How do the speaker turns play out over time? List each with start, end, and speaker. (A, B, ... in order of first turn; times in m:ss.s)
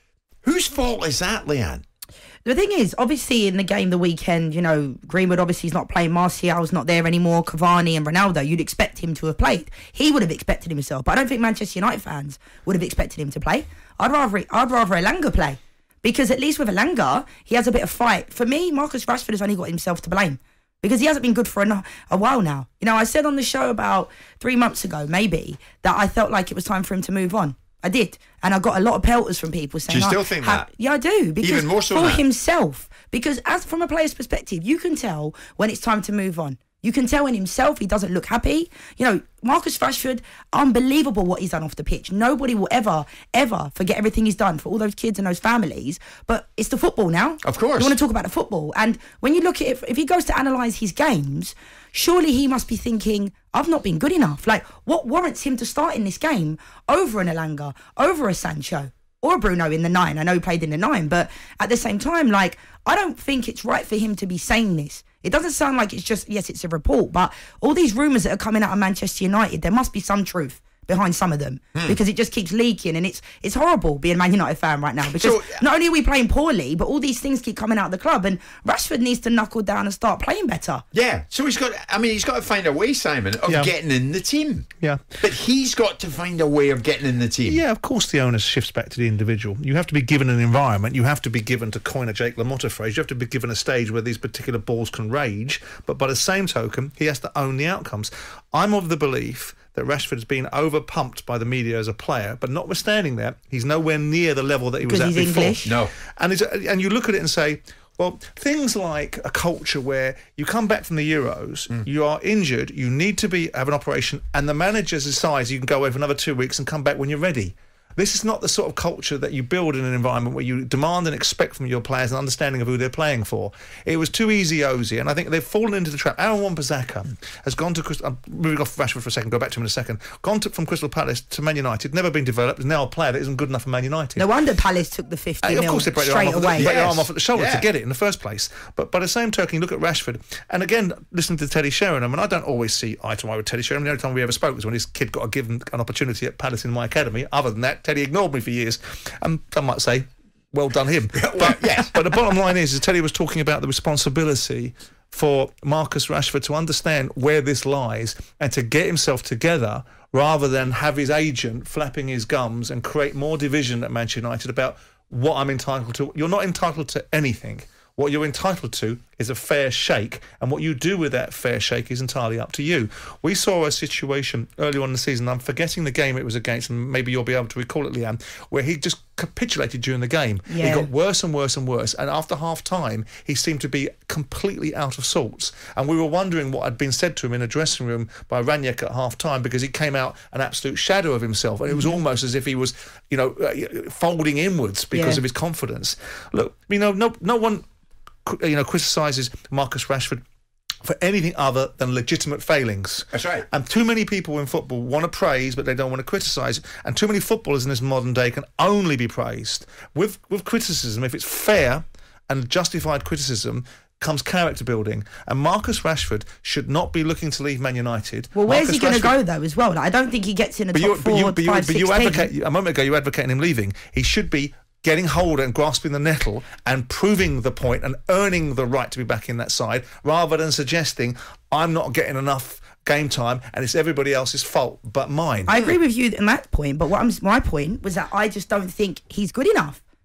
0:00.4-0:01.8 A
0:02.4-1:20.8 B
0:29.9-0:30.7 A
0:31.4-0:32.2 A
0:47.4-0:48.0 A
1:15.1-1:15.6 A
1:20.9-1:24.7 A
1:23.5-1:23.7 C
1:24.8-1:25.1 C
1:25.2-1:27.6 A
1:27.4-2:14.3 C
1:44.8-1:45.7 B
1:45.6-1:45.9 A
2:14.2-2:16.7 B
2:15.4-3:17.6 C
2:16.6-2:17.6 A
2:31.1-2:31.9 A
3:00.5-3:00.9 B
3:14.9-3:15.2 B
3:18.2-3:20.2 C
3:20.8-3:39.2 C
3:23.1-3:23.4 A
3:38.3-3:42.3 B
3:40.7-3:55.5 C
3:55.5-3:59.8 B